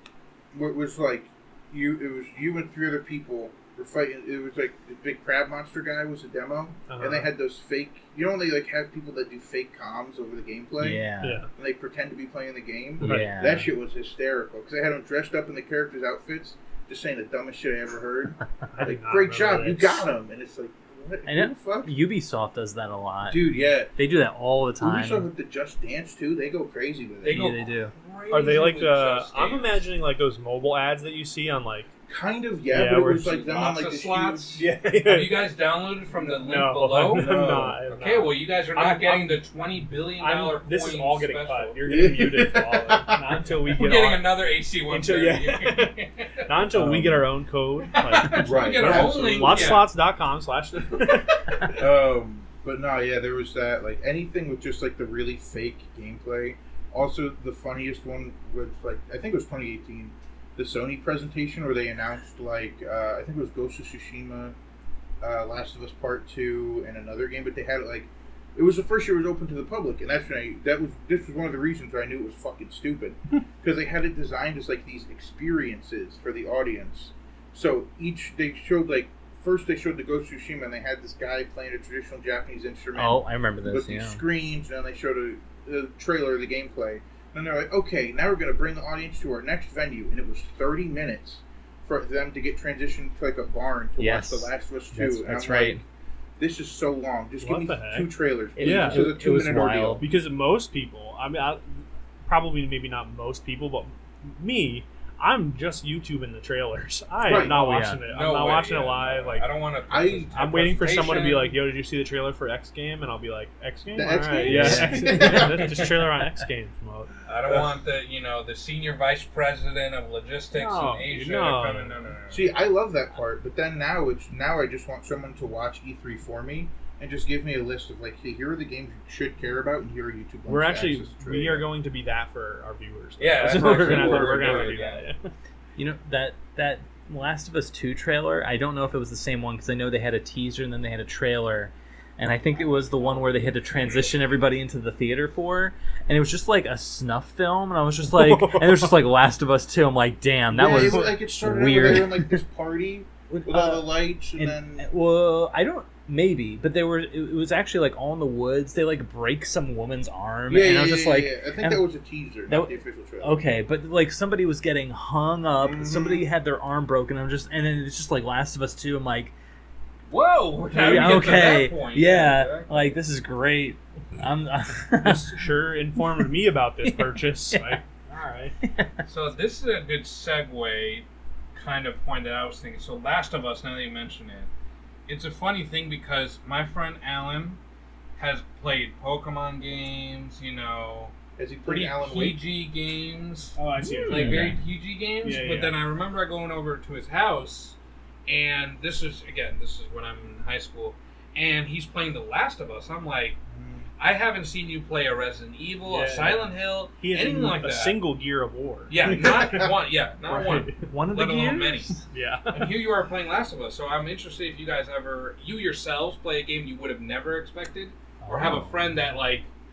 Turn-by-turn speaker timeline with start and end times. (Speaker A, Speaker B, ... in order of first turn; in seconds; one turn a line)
Speaker A: 0.5-22.0
Speaker B: 6.9-7.3
Speaker C: 10.8-11.4
Speaker B: 11.2-11.5
Speaker B: 13.0-13.3
Speaker C: 13.0-13.7
Speaker B: 18.7-20.0
Speaker C: 21.3-25.3
Speaker A: 23.3-23.9
Speaker A: 24.8-27.5
Speaker D: 27.2-29.8
Speaker C: 27.2-27.9
Speaker B: 28.3-31.9
Speaker A: 32.1-34.6
Speaker B: 32.7-33.4
Speaker D: 33.2-41.8
Speaker B: 34.5-35.5
Speaker B: 36.4-39.4
Speaker A: 37.1-37.8
Speaker B: 40.2-44.4
Speaker A: 41.9-43.4
Speaker D: 43.8-46.5
Speaker B: 44.9-51.8
Speaker A: 46.8-47.2
Speaker C: 46.8-47.1
Speaker D: 48.0-49.9
Speaker A: 48.2-49.9
Speaker A: 51.8-64.5
Speaker A: 65.2-95.8
Speaker C: 82.9-84.2
Speaker C: 94.0-95.8
Speaker A: 96.4-100.0
Speaker B: 97.4-99.1
Speaker C: 98.6-100.0
Speaker B: 100.0-109.5
Speaker A: 107.2-107.6
Speaker C: 107.4-108.0
Speaker D: 108.1-111.6
Speaker A: 109.9-110.3
Speaker B: 110.3-117.1
Speaker A: 114.0-115.9
Speaker C: 114.4-115.4
Speaker D: 117.3-122.5
Speaker B: 120.5-122.0
Speaker A: 122.3-131.7
Speaker B: 130.5-135.3
Speaker D: 133.2-135.0
Speaker A: 133.5-134.8
Speaker C: 135.8-152.4
Speaker A: 142.6-143.3
Speaker D: 143.8-144.2
Speaker B: 148.1-149.0
Speaker A: 150.5-154.9
Speaker C: 153.3-161.8
Speaker A: 160.5-163.4
Speaker C: 162.5-169.3
Speaker A: 165.6-166.3
Speaker D: 170.1-172.9
Speaker C: 170.7-175.4
Speaker B: 175.0-178.6
Speaker C: 176.8-177.8
Speaker C: 178.6-179.0
Speaker D: 179.1-184.5
Speaker D: 185.1-187.6
Speaker D: 188.2-191.1
Speaker A: 191.4-192.4
Speaker D: 191.6-203.4
Speaker B: 193.6-194.5
Speaker C: 193.9-194.6
Speaker B: 195.2-195.8
Speaker A: 203.5-203.9
Speaker D: 204.0-208.0
Speaker B: 205.9-209.4
Speaker D: 208.9-219.5
Speaker A: 209.1-209.7
Speaker B: 210.3-211.0
Speaker C: 210.9-211.9
Speaker B: 212.1-212.8
Speaker B: 218.2-218.7
Speaker C: 218.3-218.6